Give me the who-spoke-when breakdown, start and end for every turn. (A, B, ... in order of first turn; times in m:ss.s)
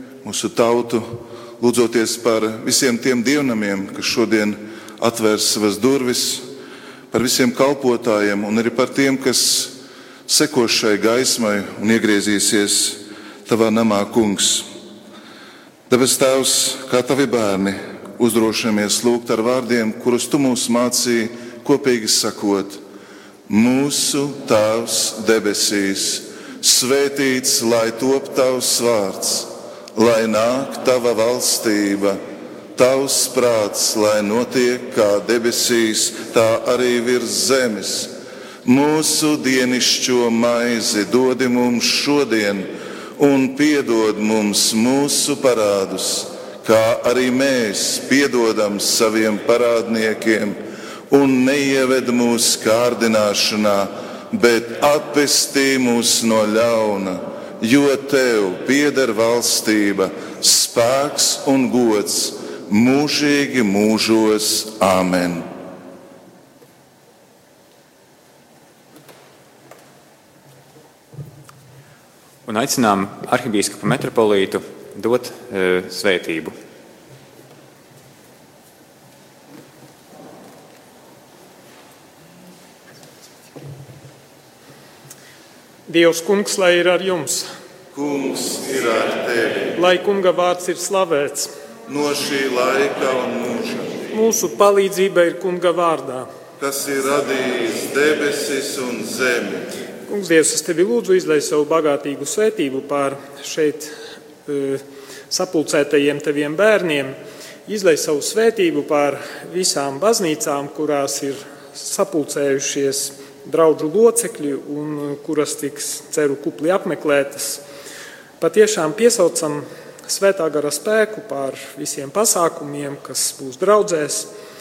0:00.2-0:06.5 A
0:07.1-0:14.7 A
0:15.9-0:22.8 A
0:23.5-0:32.2 A
0:32.7-0:38.1 A
0:38.6-1:05.5 A
1:12.4-1:16.5 B
1:25.9-1:27.5 C
1:27.9-1:29.8 A
1:29.8-1:31.5 C
1:31.9-1:34.0 A
1:34.1-1:36.3 C
1:36.6-1:39.7 A
1:40.1-1:43.9 C
1:44.4-1:47.2 C
1:47.7-1:57.6 C
1:58.4-2:04.3 C